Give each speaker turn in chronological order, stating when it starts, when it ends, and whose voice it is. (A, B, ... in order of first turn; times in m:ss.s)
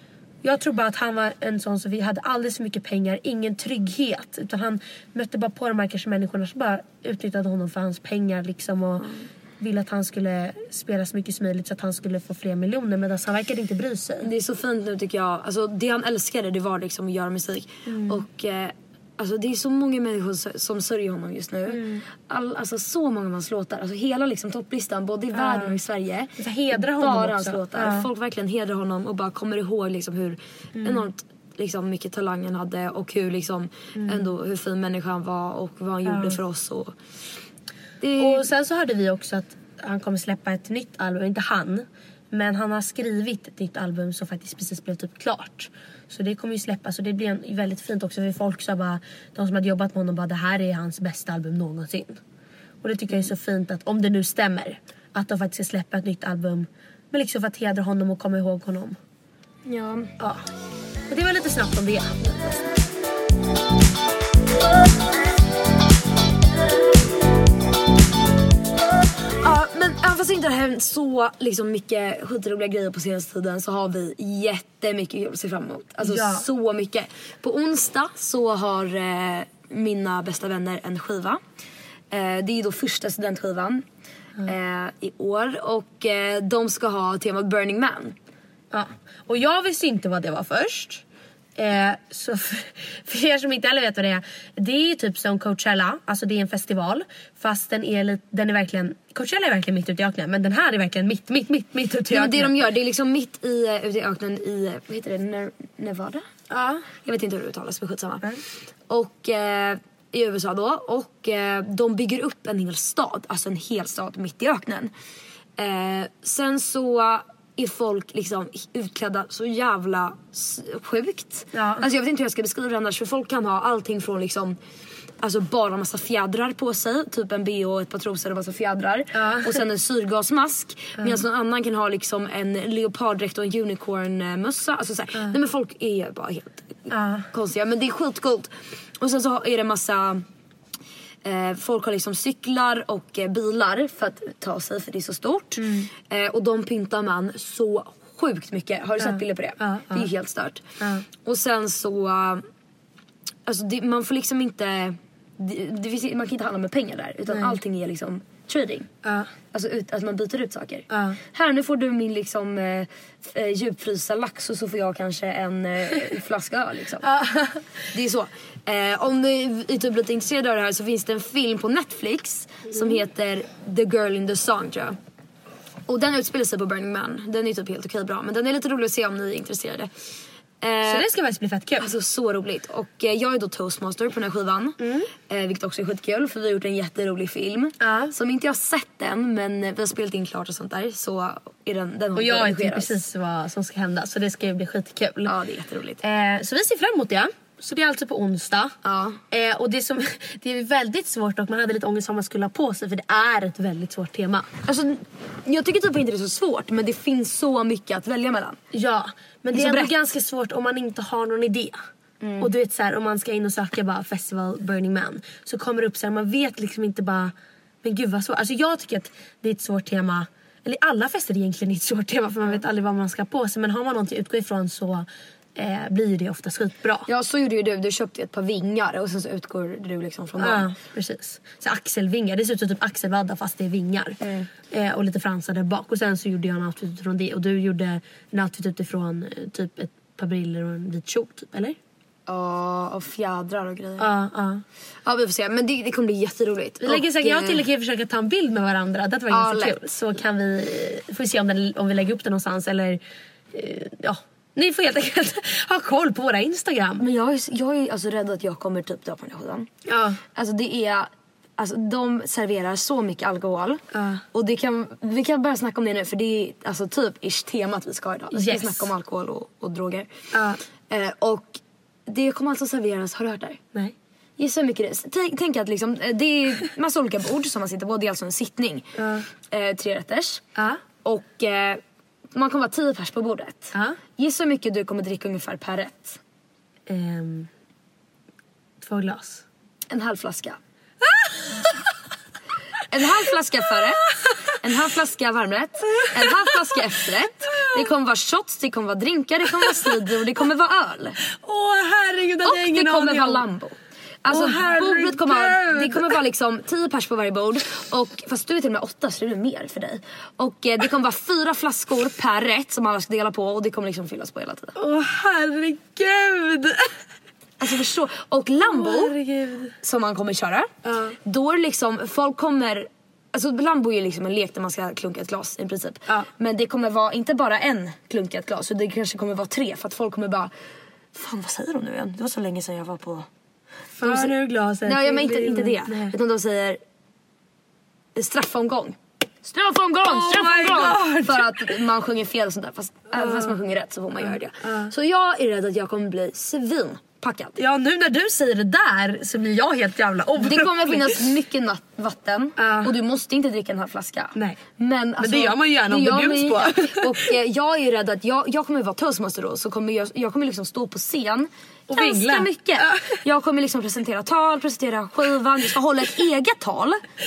0:00.4-0:14.3 A
0:14.2-0:37.0 B
0:17.8-0:18.2 A
0:21.7-0:22.0 A
0:25.3-0:25.8 A
0:26.4-0:28.1 A
0:30.8-0:31.0 A
0:34.0-0:34.2 A
0:36.1-0:36.4 A
0:38.0-0:38.5 B
0:38.2-0:52.2 A
0:52.8-0:59.0 A
0:59.6-1:00.1 B
1:00.2-1:00.5 A
1:01.1-1:02.8 A
1:09.4-1:21.4 B
1:16.0-1:16.4 A
1:22.1-1:23.8 B
1:24.4-1:28.2 B
1:28.7-1:31.0 A
1:31.6-1:42.6 A
1:42.1-1:46.2 B
1:46.5-1:46.8 A
1:47.0-1:48.3 B
1:48.9-1:54.9 B
1:55.6-2:04.6 B
2:01.5-2:01.8 A
2:05.2-2:20.2 B
2:09.1-2:09.6 A
2:16.9-2:17.3 A
2:21.2-2:30.6 B
2:25.6-2:25.9 A
2:29.0-2:30.1 A
2:30.8-2:31.0 A
2:31.2-2:32.4 B
2:33.4-2:38.9 B
2:37.3-2:37.6 A
2:39.0-2:39.3 A
2:39.5-2:47.1 B
2:40.9-2:41.2 A
2:47.0-2:47.7 A
2:47.9-2:55.0 B
2:55.8-2:59.9 B
3:00.6-3:01.1 B
3:00.8-3:01.9 A
3:01.8-3:13.0 B
3:04.8-3:05.1 A
3:07.8-3:08.1 A
3:12.2-3:15.3 A
3:15.2-3:16.0 B
3:16.0-3:18.8 A
3:18.8-3:19.2 B
3:19.3-3:24.5 A
3:24.6-3:28.6 B
3:28.7-3:31.8 A
3:29.5-3:29.9 B
3:32.2-3:32.5 B
3:32.4-3:47.1 A
3:47.1-3:50.6 B
3:50.4-3:54.2 A
3:54.2-3:54.5 B
3:54.7-4:01.8 A
4:02.3-4:04.1 B
4:04.0-4:04.6 A
4:05.0-4:07.6 B
4:06.8-4:13.0 A
4:09.3-4:09.8 B
4:13.5-4:17.0 A
4:17.0-4:19.7 B
4:19.8-4:20.2 A
4:20.3-4:30.1 B
4:23.9-4:24.2 A
4:28.3-4:28.9 A
4:30.3-4:30.6 A
4:30.9-4:33.6 B
4:34.4-4:39.0 B
4:39.0-4:39.3 A
4:39.5-4:40.4 B
4:40.6-4:40.8 A
4:41.0-4:41.8 B
4:42.3-4:46.2 B
4:46.9-4:47.5 A
4:48.8-4:49.4 A
4:49.9-4:50.6 B
4:51.1-4:51.7 A
4:52.9-4:54.0 B
4:54.2-4:54.5 A
4:54.6-5:01.2 B
4:55.9-4:56.8 A
4:57.4-4:57.8 A
4:59.7-4:59.9 A
5:01.2-5:03.4 A
5:02.4-5:14.7 B
5:04.3-5:06.2 A
5:14.8-5:16.9 A
5:17.6-5:19.2 B
5:18.6-5:19.7 A
5:19.8-5:30.5 B
5:20.8-5:21.2 A
5:31.1-5:33.3 B
5:34.0-5:36.1 A
5:34.0-5:34.3 B
5:34.8-5:36.8 B
5:38.2-5:47.6 B
5:40.0-5:41.8 A
5:43.2-5:43.6 A
5:44.6-5:44.9 A
5:47.6-5:51.2 A
5:50.4-6:07.0 B
5:52.6-5:52.9 A
5:55.2-5:57.3 A
6:01.9-6:03.2 A